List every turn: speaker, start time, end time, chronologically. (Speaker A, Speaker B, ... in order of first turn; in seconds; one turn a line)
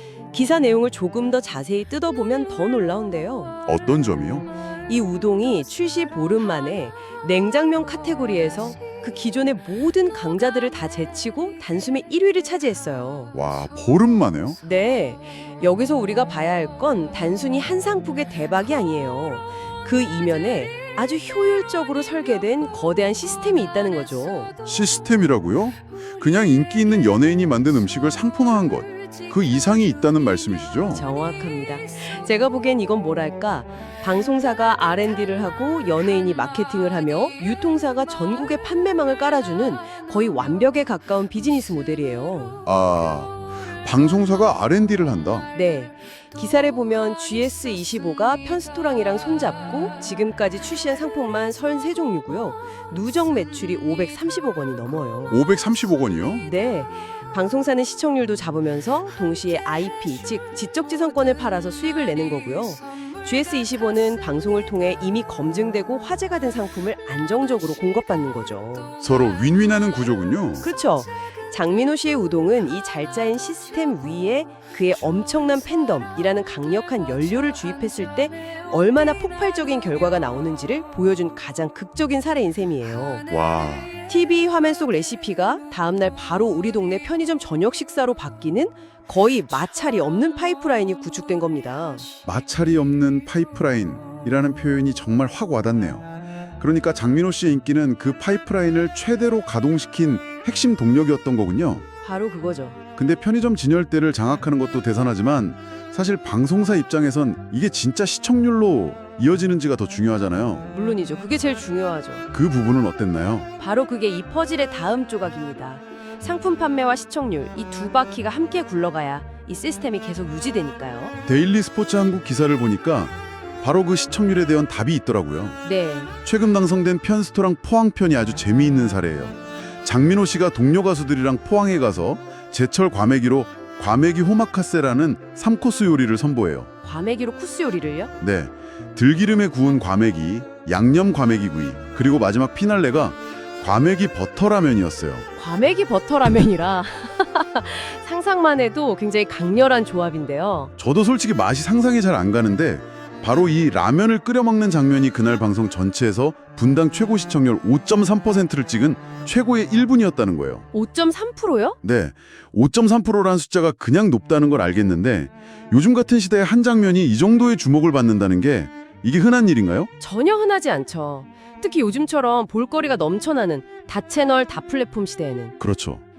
Speaker A: 0.3-3.5
Speaker B: 3.6-4.5
Speaker A: 4.9-13.3
Speaker B: 13.3-14.6
Speaker A: 14.6-24.5
Speaker B: 24.6-31.1
Speaker A: 30.9-42.6
Speaker B: 42.6-45.5
Speaker A: 45.5-55.4
Speaker B: 55.3-56.4
Speaker A: 56.4-68.9
Speaker B: 69.0-70.7
Speaker A: 70.6-83.2
Speaker B: 83.3-83.9
Speaker A: 84.1-92.1
Speaker B: 92.2-96.1
Speaker B: 96.6-101.8
Speaker A: 102.0-102.8
Speaker B: 103.0-110.7
Speaker A: 110.7-112.3
Speaker B: 112.3-113.5
Speaker A: 113.6-121.2
Speaker B: 121.2-125.6
Speaker A: 125.6-126.1
Speaker B: 126.2-136.7
Speaker A: 136.8-138.1
Speaker B: 138.2-145.3
Speaker A: 145.4-150.7
Speaker B: 150.8-160.7
Speaker A: 160.7-161.8
Speaker B: 161.8-169.9
Speaker A: 170.0-175.6
Speaker B: 175.6-176.0